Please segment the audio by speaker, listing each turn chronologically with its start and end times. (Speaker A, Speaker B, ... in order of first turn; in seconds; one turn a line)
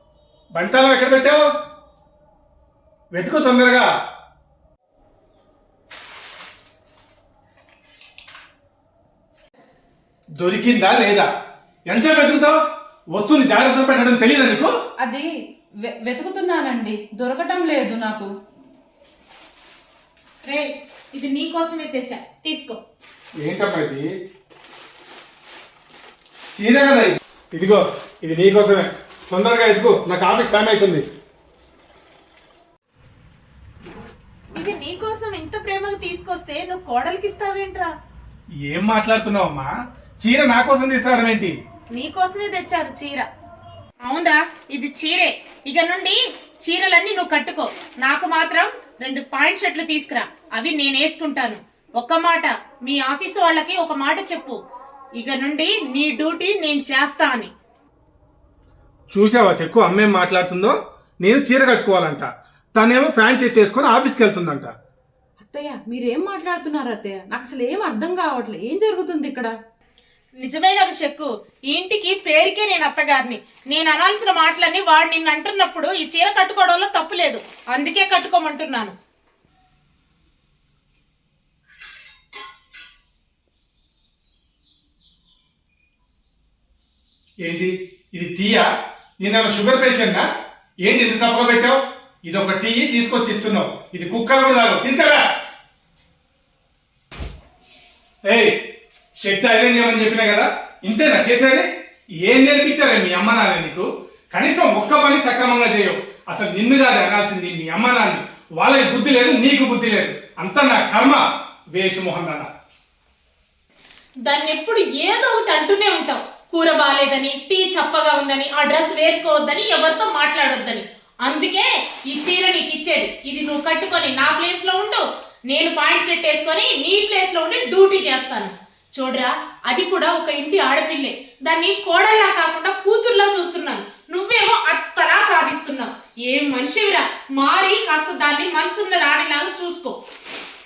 Speaker A: 0.5-1.4
Speaker A: 3.1-3.9
Speaker A: 10.4-11.3
Speaker A: 11.9-12.6
Speaker A: 13.1-14.7
Speaker B: 15.0-15.3
Speaker B: 15.8-18.3
Speaker C: 20.4-22.8
Speaker A: 23.4-24.1
Speaker A: 26.5-31.1
Speaker C: 34.5-37.9
Speaker A: 38.6-39.7
Speaker A: 40.2-41.6
Speaker C: 41.9-43.3
Speaker C: 44.0-54.6
Speaker C: 55.2-57.5
Speaker A: 59.1-64.7
Speaker B: 65.4-69.5
Speaker C: 70.4-78.9
Speaker A: 87.4-88.7
Speaker A: 89.2-90.2
Speaker A: 90.8-95.3
Speaker A: 98.2-98.5
Speaker A: 99.2-101.7
Speaker A: 102.2-111.2
Speaker A: 111.7-112.5
Speaker C: 114.2-140.0